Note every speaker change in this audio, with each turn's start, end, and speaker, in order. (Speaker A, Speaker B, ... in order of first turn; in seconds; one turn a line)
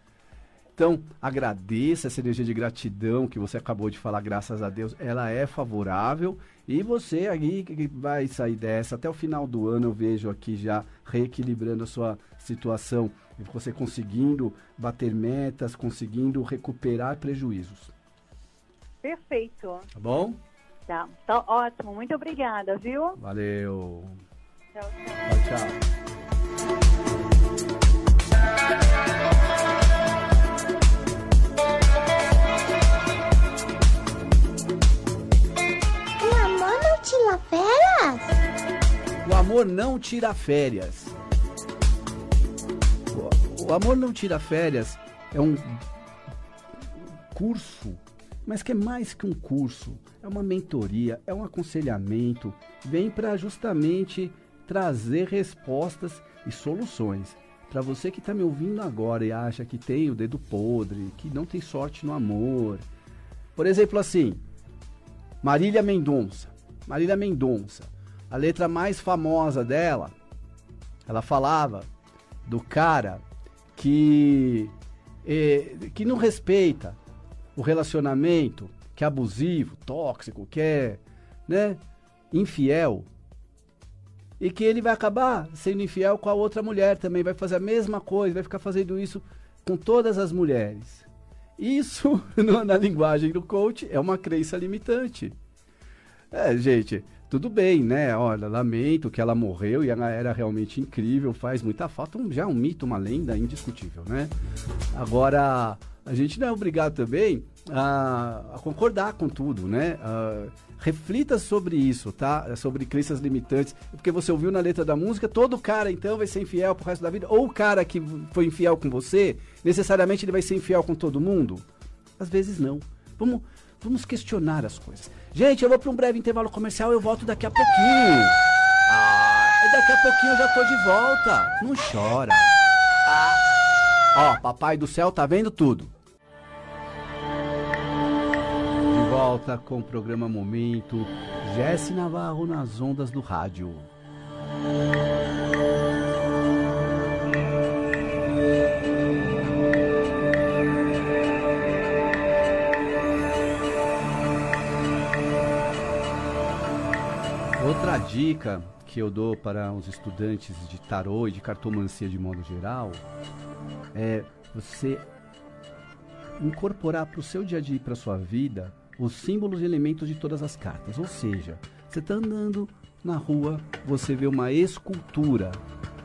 Speaker A: 0.8-17.9
Speaker B: 19.0-19.9
Speaker A: 19.9-20.4
Speaker B: 20.9-23.2
Speaker A: 23.2-24.2
Speaker B: 24.7-25.3
Speaker A: 25.2-25.8
Speaker C: 36.2-38.3
Speaker A: 39.2-41.1
Speaker A: 43.1-45.8
Speaker A: 47.3-62.9
Speaker A: 63.5-64.4
Speaker A: 65.4-70.1
Speaker A: 71.0-71.9
Speaker A: 72.5-73.2
Speaker A: 73.7-77.0
Speaker A: 77.5-83.1
Speaker A: 84.4-91.1
Speaker A: 91.6-95.3
Speaker A: 96.3-104.3
Speaker A: 104.9-121.7
Speaker A: 122.2-133.4
Speaker A: 134.1-135.9
Speaker A: 138.9-143.9
Speaker A: 157.6-163.0
Speaker A: 163.9-165.1
Speaker A: 166.4-175.6